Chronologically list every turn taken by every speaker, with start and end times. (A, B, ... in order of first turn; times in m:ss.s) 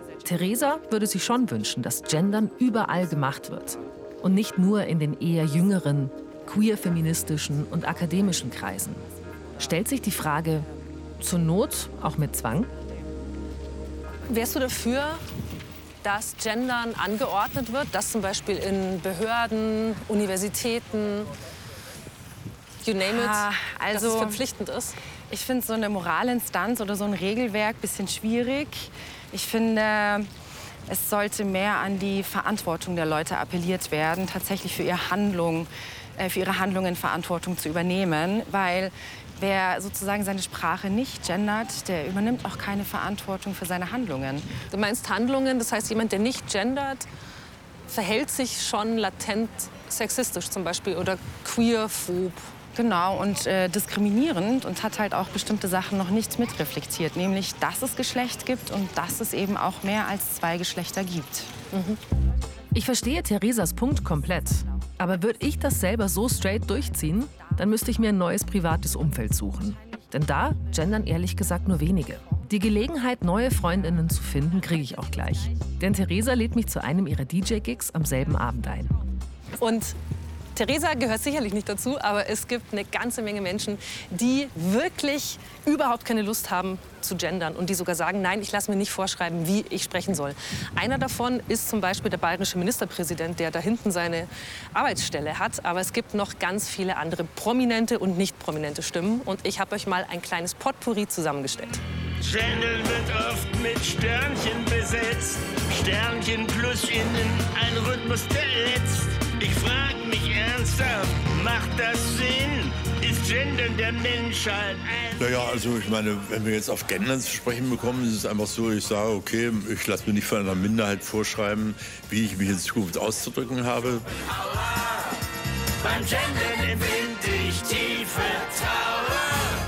0:00.2-0:09.0 A
0:09.6-0:10.7 A
0:11.2-0:12.7 A
0:14.2-0:15.2 B
0:16.0-0:21.3 B
0:22.8-0:24.9 B
0:23.0-0:24.4 C
0:25.3-0:30.3 C
0:30.9-0:44.5 C
0:44.7-0:47.0 B
0:47.9-0:52.5 B
0:52.7-1:01.6 C
1:01.7-1:02.0 B
1:02.7-1:18.9 A
1:19.6-1:20.0 B
1:20.5-1:41.8 B
1:42.2-1:55.4 D
1:55.2-2:04.0 E
2:05.8-2:09.0 D